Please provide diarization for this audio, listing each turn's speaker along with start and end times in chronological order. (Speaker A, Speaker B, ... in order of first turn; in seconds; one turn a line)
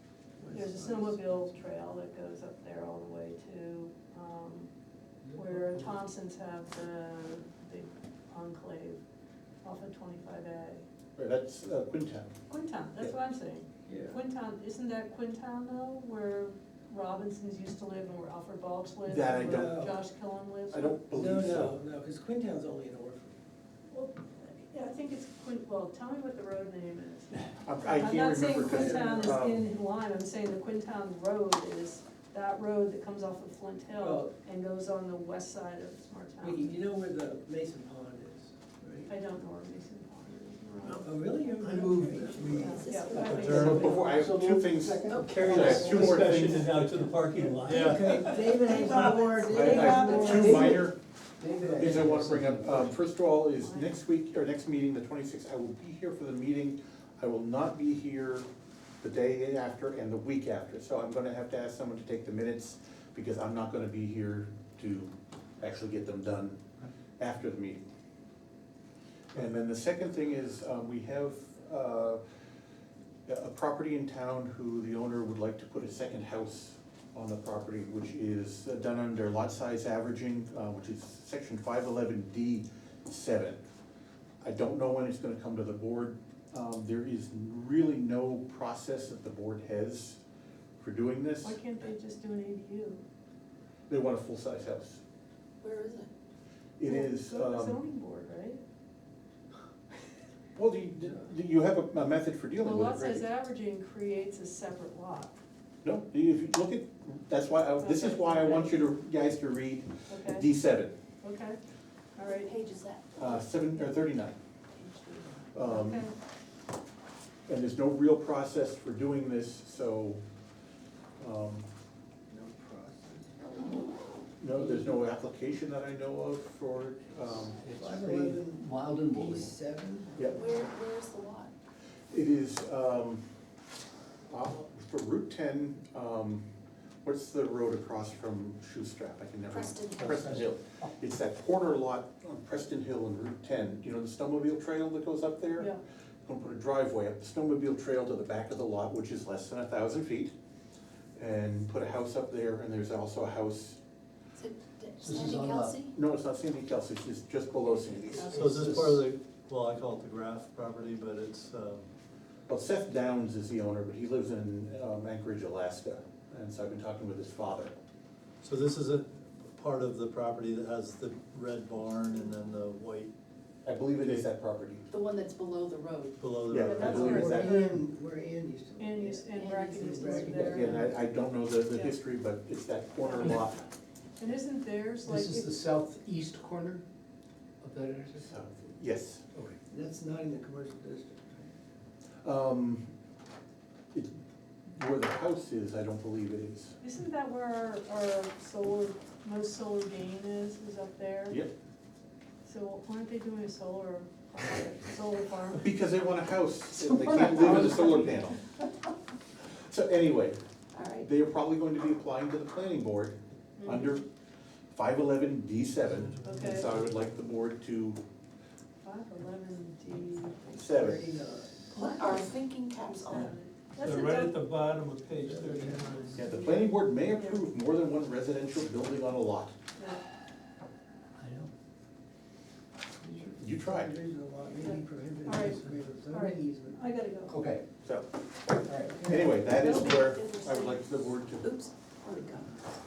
Speaker A: 0.4-1.5
Speaker B: 0.5-4.7
Speaker A: 5.2-5.9
Speaker B: 5.3-9.0
Speaker B: 9.6-10.8
Speaker C: 11.2-12.3
Speaker B: 12.5-21.0
Speaker A: 13.9-14.2
Speaker C: 19.1-19.8
Speaker A: 19.4-20.0
Speaker C: 20.7-21.8
Speaker A: 21.1-23.4
Speaker B: 23.9-36.8
Speaker C: 27.5-29.7
Speaker A: 28.7-29.4
Speaker A: 34.0-34.3
Speaker A: 36.4-39.1
Speaker B: 39.1-44.2
Speaker A: 40.8-43.5
Speaker D: 41.7-42.6
Speaker E: 42.2-43.7
Speaker F: 43.1-44.0
Speaker C: 43.5-46.6
Speaker D: 44.1-46.2
Speaker A: 45.1-46.5
Speaker F: 45.2-49.6
Speaker A: 47.4-50.9
Speaker E: 48.7-50.5
Speaker C: 49.5-51.0
Speaker B: 49.5-50.7
Speaker D: 51.4-52.9
Speaker A: 51.5-52.2
Speaker C: 51.8-58.5
Speaker B: 53.5-54.0
Speaker C: 59.0-66.6
Speaker C: 67.2-67.8
Speaker C: 69.3-72.2
Speaker C: 73.3-83.6
Speaker C: 84.4-90.2
Speaker C: 90.8-91.6
Speaker B: 91.4-93.0
Speaker C: 93.9-95.0
Speaker E: 95.6-96.1
Speaker C: 96.8-97.8
Speaker B: 96.8-98.6
Speaker C: 100.6-103.3
Speaker B: 102.6-105.3
Speaker C: 105.8-111.0
Speaker B: 107.8-108.8
Speaker B: 110.1-110.5
Speaker B: 111.2-111.6
Speaker B: 112.2-112.5
Speaker E: 112.2-113.4
Speaker C: 113.2-114.4
Speaker E: 114.8-115.5
Speaker C: 115.5-116.1
Speaker B: 115.6-116.1
Speaker C: 117.5-120.2
Speaker C: 121.2-121.7
Speaker A: 122.3-123.4
Speaker C: 124.4-127.6
Speaker A: 124.5-125.0
Speaker D: 127.6-129.5
Speaker A: 127.7-130.5
Speaker E: 130.3-131.5
Speaker C: 132.1-133.2
Speaker C: 134.3-136.4
Speaker C: 137.0-145.7
Speaker E: 139.5-140.2
Speaker C: 146.3-150.3
Speaker C: 151.2-153.8
Speaker E: 154.4-155.9
Speaker D: 155.0-155.8
Speaker C: 155.9-158.4
Speaker E: 157.8-158.8
Speaker F: 158.3-161.9
Speaker D: 158.4-158.8
Speaker C: 162.5-167.7
Speaker F: 168.4-173.1
Speaker C: 173.6-174.9
Speaker E: 174.9-176.2
Speaker F: 176.2-177.4
Speaker C: 176.5-177.6
Speaker B: 176.6-177.8
Speaker A: 177.1-181.0
Speaker B: 178.8-180.8
Speaker E: 179.3-180.6
Speaker C: 180.4-183.6
Speaker B: 181.7-181.9
Speaker B: 183.0-183.5
Speaker B: 184.2-185.7
Speaker D: 185.1-186.8
Speaker D: 187.6-188.3
Speaker C: 188.2-189.4
Speaker A: 189.7-191.5
Speaker C: 192.2-192.9
Speaker C: 194.8-196.8
Speaker B: 196.8-201.4
Speaker B: 202.4-205.7
Speaker C: 205.6-208.3
Speaker E: 207.2-208.3
Speaker C: 209.7-210.4
Speaker E: 210.7-211.1
Speaker C: 210.9-214.1
Speaker B: 213.6-213.9
Speaker C: 214.7-218.0
Speaker F: 215.9-217.0
Speaker B: 216.2-216.7
Speaker B: 218.8-220.6
Speaker C: 220.5-221.0
Speaker A: 220.7-221.7
Speaker B: 221.7-224.4
Speaker E: 221.7-223.3
Speaker F: 223.8-226.2
Speaker A: 225.2-226.2
Speaker C: 226.2-229.5
Speaker B: 226.2-227.4
Speaker D: 231.2-231.5
Speaker A: 233.0-236.9
Speaker C: 233.4-233.9
Speaker B: 234.6-237.4
Speaker D: 237.3-237.7
Speaker D: 238.6-239.1
Speaker A: 238.9-239.5
Speaker C: 239.1-241.5
Speaker B: 239.6-240.3
Speaker E: 239.6-242.6